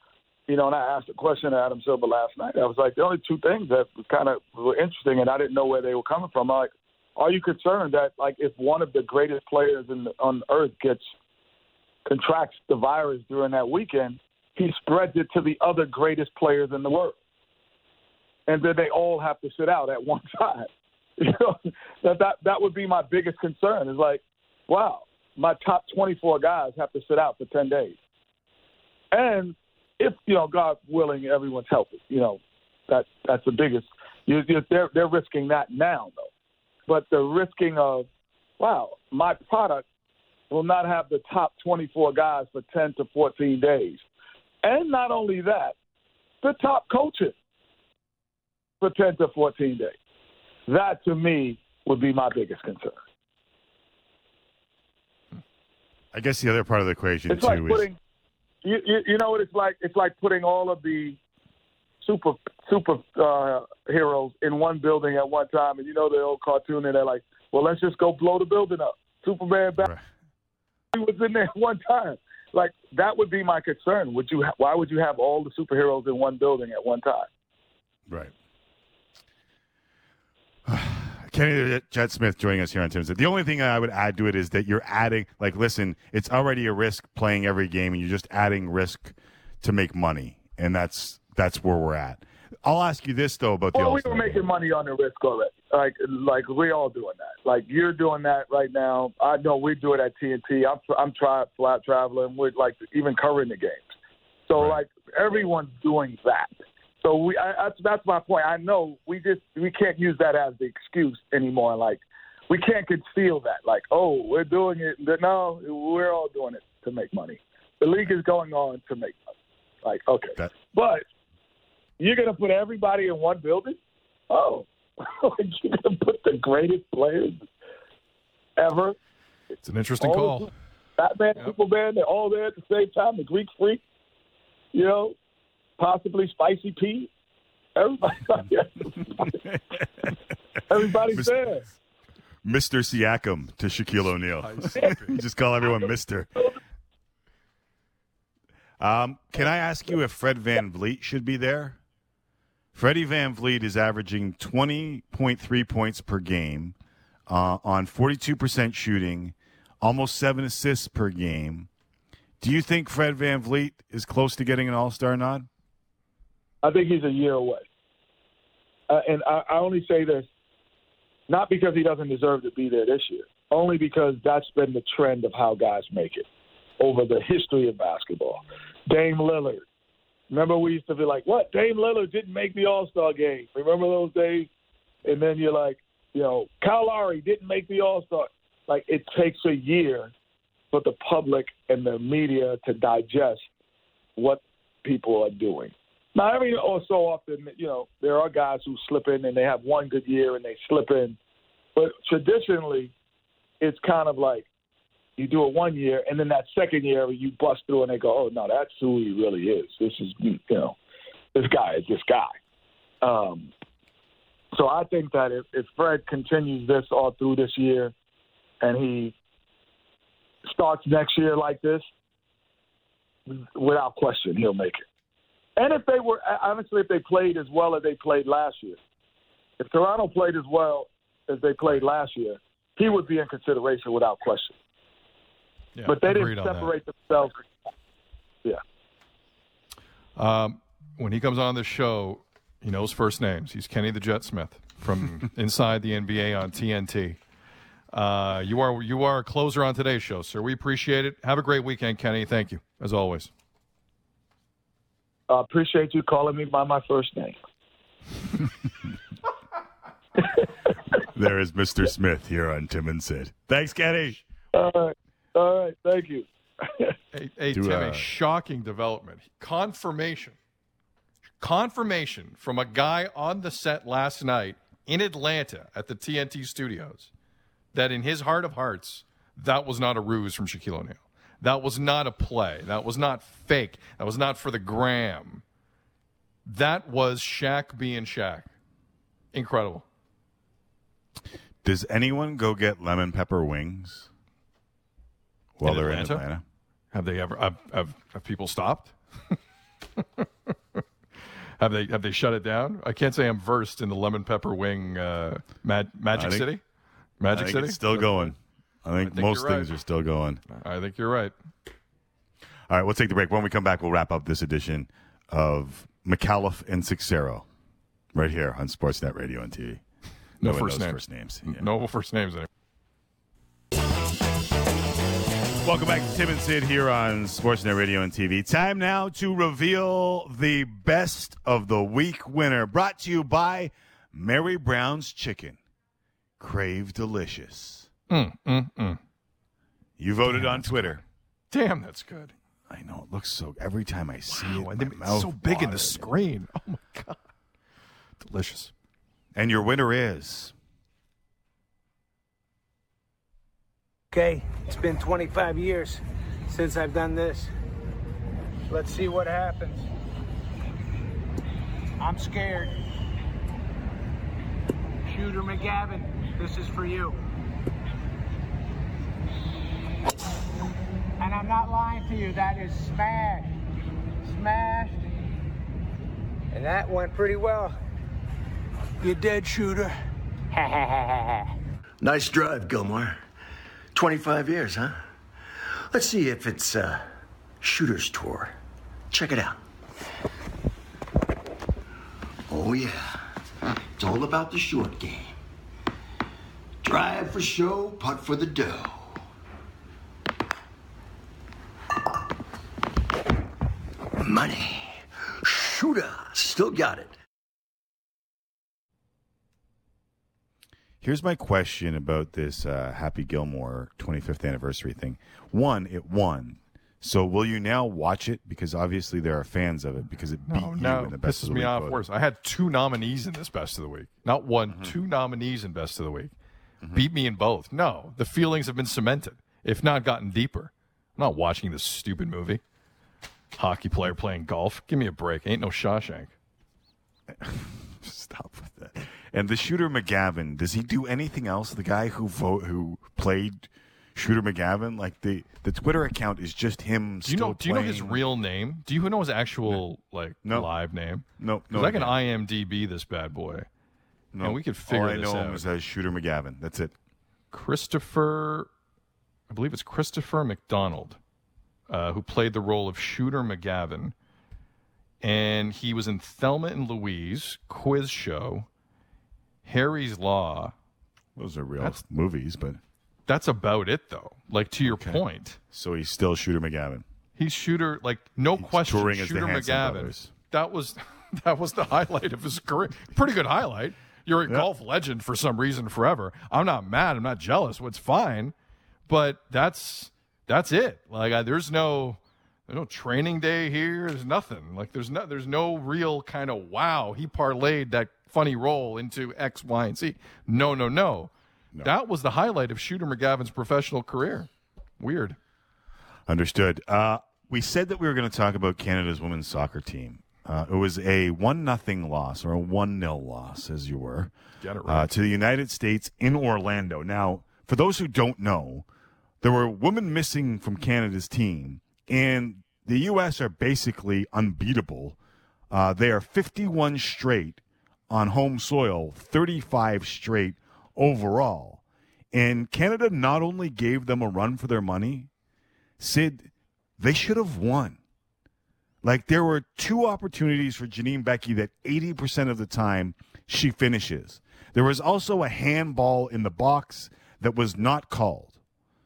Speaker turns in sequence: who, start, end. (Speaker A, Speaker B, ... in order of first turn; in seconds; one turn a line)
Speaker A: 0.5-11.1
Speaker A: 12.1-17.1
Speaker A: 18.5-27.9
Speaker A: 29.1-36.3
Speaker A: 36.9-38.1
Speaker A: 38.6-39.8
Speaker A: 40.5-44.0
Speaker A: 44.6-45.7
Speaker A: 46.4-47.3
Speaker A: 48.8-49.9
Speaker A: 50.7-53.0
Speaker B: 56.1-57.9
Speaker A: 57.3-58.0
Speaker A: 58.6-61.2
Speaker A: 62.0-69.9
Speaker A: 70.9-77.3
Speaker B: 78.1-78.3
Speaker B: 80.7-94.4
Speaker A: 93.7-103.9
Speaker A: 104.5-106.5
Speaker A: 107.0-119.3
Speaker A: 119.8-121.0
Speaker A: 122.0-123.8
Speaker A: 124.3-127.4
Speaker A: 128.6-128.9
Speaker C: 129.6-130.5
Speaker A: 130.0-133.8
Speaker A: 134.7-135.1
Speaker A: 135.8-137.1
Speaker A: 137.8-139.3
Speaker A: 140.7-141.7
Speaker B: 141.1-141.4
Speaker B: 142.4-146.4
Speaker C: 144.4-145.2
Speaker B: 148.8-151.8
Speaker B: 152.7-156.7
Speaker B: 157.3-161.7
Speaker B: 162.4-165.5
Speaker A: 166.6-167.6
Speaker A: 168.9-170.3
Speaker A: 171.3-176.2
Speaker A: 176.8-179.6
Speaker A: 180.3-184.5
Speaker A: 185.0-190.1
Speaker A: 190.7-193.4
Speaker A: 194.2-201.2
Speaker A: 201.8-202.9
Speaker A: 203.6-204.5
Speaker A: 205.2-210.8
Speaker A: 211.3-212.3
Speaker A: 213.0-213.5
Speaker A: 214.5-217.9
Speaker A: 218.6-219.1
Speaker A: 220.4-221.8
Speaker A: 223.3-224.8
Speaker A: 225.6-228.8
Speaker A: 229.6-234.6
Speaker C: 235.8-236.8
Speaker A: 235.8-237.4
Speaker C: 240.2-247.2
Speaker C: 247.9-253.3
Speaker A: 255.3-257.4
Speaker B: 261.1-264.2
Speaker A: 264.5-266.9
Speaker C: 267.1-270.4
Speaker B: 267.5-268.1
Speaker C: 271.4-277.1
Speaker C: 277.7-285.4
Speaker C: 286.4-288.5
Speaker C: 289.3-289.8
Speaker B: 291.6-294.1
Speaker B: 295.6-296.4
Speaker C: 295.6-296.2
Speaker C: 296.9-299.4
Speaker C: 300.0-300.8
Speaker C: 301.6-306.6
Speaker B: 306.1-306.5
Speaker C: 307.2-308.3
Speaker B: 307.3-310.4
Speaker C: 309.0-309.7
Speaker C: 310.5-311.3
Speaker B: 312.7-317.4
Speaker B: 318.1-319.8
Speaker B: 320.4-321.7
Speaker C: 320.4-322.5
Speaker B: 325.6-335.6
Speaker B: 336.4-337.9
Speaker C: 338.1-339.0
Speaker B: 340.0-341.0
Speaker C: 340.3-342.3
Speaker B: 342.7-346.1
Speaker C: 344.3-347.2
Speaker C: 348.2-348.7
Speaker B: 349.3-350.5
Speaker D: 354.1-357.5
Speaker D: 358.7-359.8
Speaker D: 362.0-362.8
Speaker D: 365.1-367.2
Speaker D: 371.2-373.6
Speaker D: 374.2-375.1
Speaker D: 376.5-377.8
Speaker D: 379.0-380.0
Speaker D: 380.5-381.4
Speaker E: 382.0-383.2
Speaker E: 383.9-385.1
Speaker E: 385.9-387.1
Speaker E: 387.6-388.6
Speaker E: 389.1-389.6
Speaker E: 392.5-393.3
Speaker E: 394.0-395.4
Speaker E: 396.8-399.2
Speaker E: 404.2-407.1
Speaker B: 411.0-422.0
Speaker C: 420.4-426.3
Speaker C: 426.9-432.6
Speaker C: 433.6-436.3
Speaker B: 437.3-448.2
Speaker C: 447.2-453.7
Speaker B: 450.4-450.7
Speaker B: 451.4-452.1
Speaker B: 454.3-456.9
Speaker C: 454.4-455.6
Speaker C: 457.5-458.7
Speaker C: 459.5-461.2
Speaker C: 461.9-464.1
Speaker C: 465.2-468.7
Speaker C: 469.6-470.7
Speaker B: 471.4-472.8
Speaker C: 473.3-475.6
Speaker B: 474.8-477.0
Speaker C: 477.4-488.5
Speaker B: 478.6-480.3
Speaker C: 489.1-504.5
Speaker C: 505.0-505.4
Speaker B: 506.3-514.3
Speaker C: 514.6-515.1
Speaker B: 514.8-518.9
Speaker B: 519.4-525.2
Speaker B: 525.7-535.3
Speaker B: 536.0-538.0
Speaker B: 539.0-548.5